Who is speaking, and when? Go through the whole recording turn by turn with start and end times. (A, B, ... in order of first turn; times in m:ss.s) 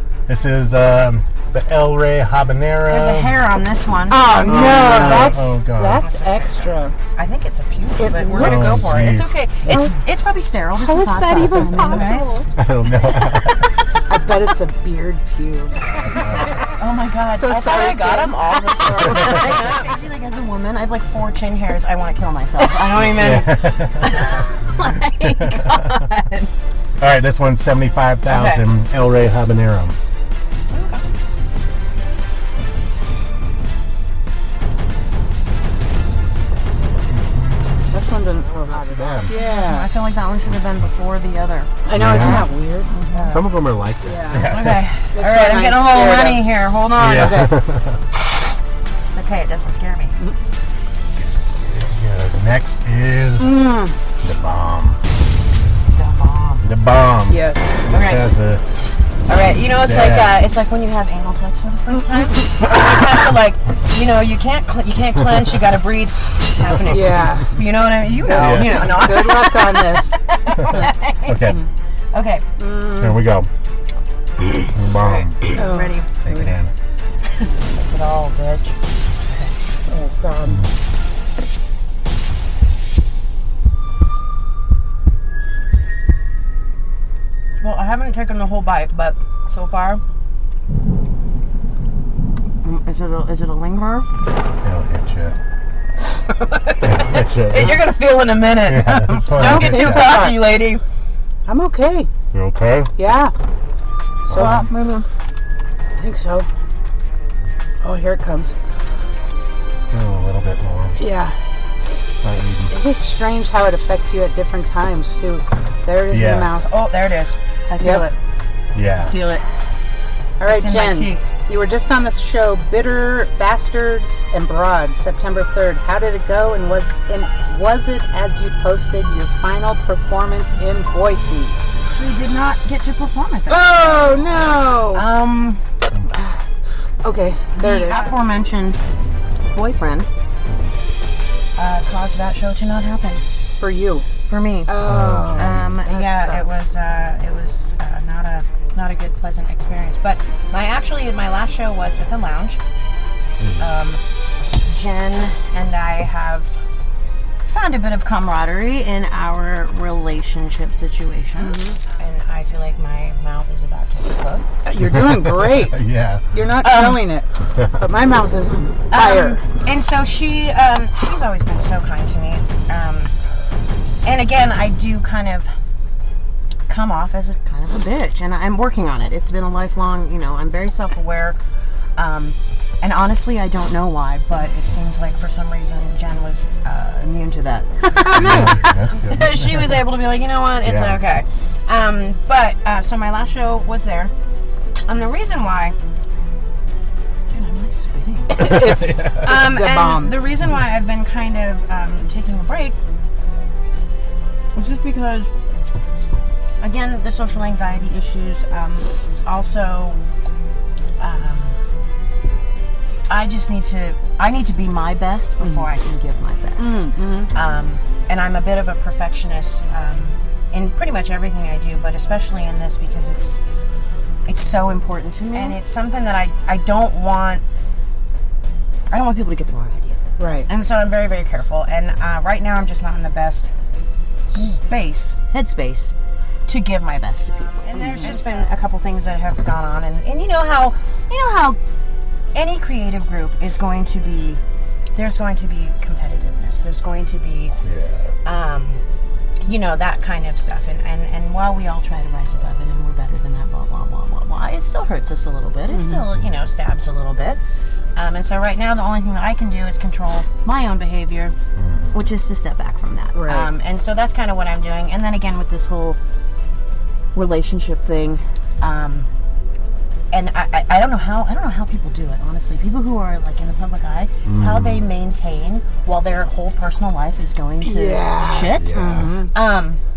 0:00.3-0:03.4 A
0:02.9-0:12.3 B
0:04.1-0:06.9 C
0:04.4-0:06.0 A
0:08.0-0:09.0 C
0:08.4-0:09.3 A
0:09.6-0:10.0 C
0:10.7-0:12.5 C
0:12.6-0:13.6 A
0:14.1-0:16.6 C
0:16.0-0:16.6 A
0:16.7-0:26.5 B
0:17.3-0:19.4 C
0:23.0-0:24.4 A
0:25.2-0:25.8 A
0:27.0-0:30.0 A
0:28.3-0:28.6 B
0:30.7-0:31.0 B
0:37.4-0:37.8 A
0:37.9-0:39.9 C
0:38.8-0:39.3 A
0:39.3-0:43.4 B
0:41.8-0:43.4 C
0:41.9-0:42.5 A
0:43.3-0:44.8 A
0:44.0-0:44.5 C
0:44.3-0:47.5 B
0:45.1-0:46.5 C
0:47.0-0:48.0 A
0:47.1-0:47.5 C
0:49.1-0:50.2 B
0:51.1-0:53.6 A
0:53.4-0:54.0 C
0:54.2-0:55.0 A
0:55.9-0:56.6 B
0:56.6-0:58.6 A
0:57.3-0:57.8 C
0:57.9-0:58.4 B
0:59.3-1:11.5 B
0:59.7-1:00.4 A
1:06.9-1:07.7 C
1:08.2-1:10.2 C
1:08.3-1:09.1 A
1:10.6-1:11.6 A
1:12.1-1:12.4 B
1:12.6-1:13.2 C
1:13.0-1:13.5 A
1:14.6-1:15.5 A
1:15.4-1:16.1 B
1:15.4-1:16.3 C
1:16.2-1:16.7 A
1:17.3-1:18.8 B
1:19.3-1:19.5 B
1:19.9-1:20.6 C
1:20.4-1:20.7 A
1:27.6-1:30.0 B
1:32.6-1:34.1 B
1:34.6-1:35.4 A
1:36.3-1:40.8 B
1:36.8-1:37.9 A
1:38.6-1:40.3 A
1:39.3-1:40.4 C
1:41.5-1:42.1 C
1:42.3-1:42.9 A
1:43.0-1:43.3 C
1:44.3-1:44.7 A
1:44.3-1:44.7 C
1:44.3-1:45.0 B
1:46.0-1:46.5 C
1:47.8-1:48.5 C
1:49.9-1:51.0 A
1:51.0-1:51.4 C
1:52.2-1:52.7 A
1:52.4-1:56.7 C
1:56.1-1:56.5 A
1:56.6-1:58.2 B
1:57.8-1:58.1 C
1:58.7-1:59.2 A
1:59.0-1:59.4 B
2:00.4-2:11.6 C
2:00.4-2:01.2 B
2:11.8-2:15.6 B
2:13.5-2:15.0 C
2:16.1-2:16.4 C
2:17.0-2:18.2 C
2:17.6-2:18.8 B
2:19.5-2:20.1 B
2:21.6-2:23.2 B
2:23.6-2:24.1 C
2:24.3-2:24.7 B
2:24.7-2:26.6 C
2:24.8-2:25.7 A
2:25.3-2:32.6 B
2:33.4-2:33.8 A
2:33.6-2:34.0 B
2:34.6-2:36.6 B
2:37.4-2:44.5 B
2:41.4-2:41.8 C
2:44.6-2:45.8 C
2:44.8-2:46.3 A
2:46.3-2:49.4 C
2:46.6-2:47.1 B
2:48.9-2:53.1 B
2:54.0-2:55.5 B
2:56.7-3:01.4 B
3:02.0-3:14.1 B
3:08.0-3:08.5 C
3:08.1-3:09.8 A
3:10.6-3:11.0 A
3:14.8-3:15.8 B
3:17.3-3:18.6 B
3:18.3-3:20.2 C
3:18.4-3:19.2 A
3:19.2-3:22.8 B
3:24.5-3:25.3 B
3:26.6-3:30.0 B
3:31.0-3:31.6 B
3:33.1-3:43.4 B
3:35.4-3:35.7 C
3:36.6-3:37.3 C
3:44.3-3:47.4 B
3:45.1-3:45.5 C
3:48.9-3:53.5 B
3:50.2-3:50.5 C
3:54.3-4:01.6 B
3:57.8-3:58.5 C
4:02.3-4:04.4 B
4:05.0-4:07.6 B
4:07.6-4:08.2 A
4:08.2-4:08.8 B
4:09.4-4:17.4 B
4:15.7-4:16.0 C
4:17.9-4:21.3 B
4:21.6-4:22.0 A
4:21.9-4:26.0 B
4:23.1-4:23.5 C
4:27.1-4:29.1 B
4:30.1-4:38.8 B
4:34.2-4:34.8 A
4:37.6-4:39.3 C
4:38.5-4:39.1 A
4:39.3-4:39.8 B